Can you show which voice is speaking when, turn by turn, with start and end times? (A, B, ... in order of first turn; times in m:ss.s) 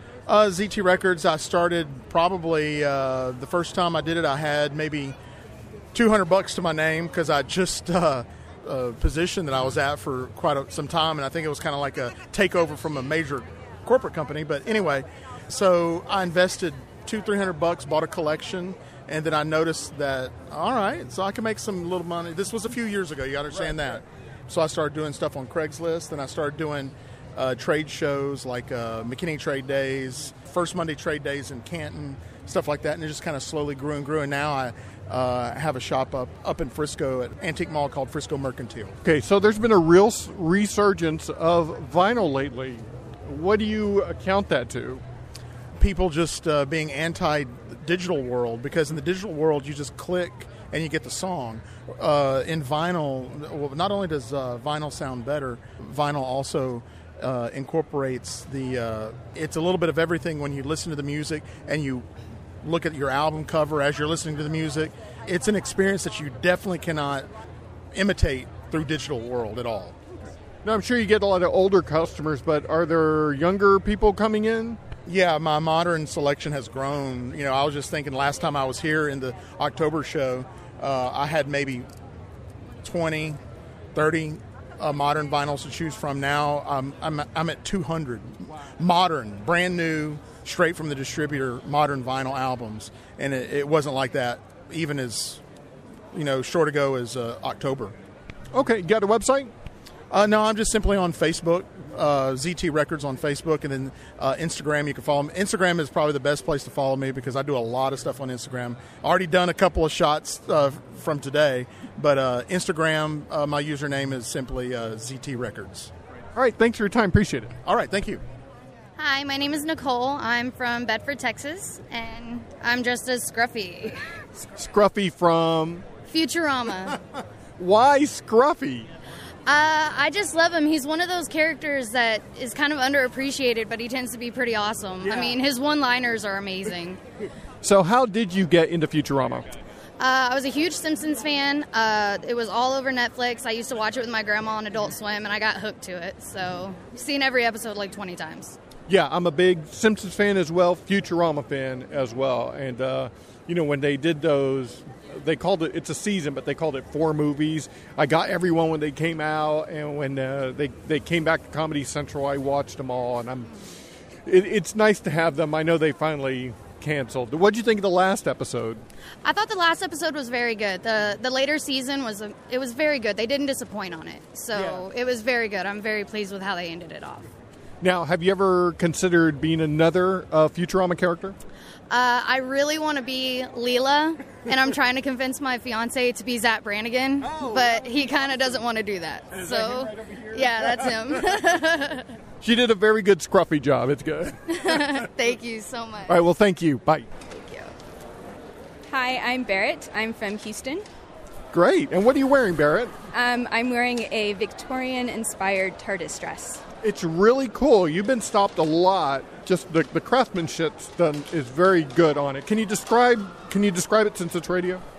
0:00.2-0:05.2 A
0:05.9-0:39.0 A
0:39.0-0:45.0 B
0:45.8-1:02.1 A
1:02.6-1:07.3 A
1:07.9-1:10.0 A
1:10.6-1:14.8 B
1:15.0-1:21.9 A
1:22.8-1:23.4 A
1:23.9-1:35.4 A
1:36.1-1:38.0 A
1:38.5-1:39.5 B
1:40.1-1:55.9 A
1:56.3-1:57.5 B
1:57.6-1:58.2 A
1:59.0-2:04.0 C
2:04.6-2:05.9 B
2:06.0-2:07.0 C
2:07.6-2:08.9 B
2:09.4-2:17.0 C
2:17.6-2:19.5 B
2:20.0-2:28.6 C
2:28.9-2:43.5 B
2:44.2-2:48.8 B
2:49.2-2:57.3 C
2:54.5-2:54.8 B
2:57.8-3:01.4 B
3:01.9-3:12.0 C
3:07.3-3:07.7 B
3:09.4-3:09.9 B
3:12.4-3:14.6 B
3:14.6-3:16.2 C
3:16.1-3:17.1 B
3:17.3-3:17.7 C
3:18.8-3:20.8 D
3:21.5-3:23.0 B
3:23.1-3:26.6 D
3:26.8-3:34.8 B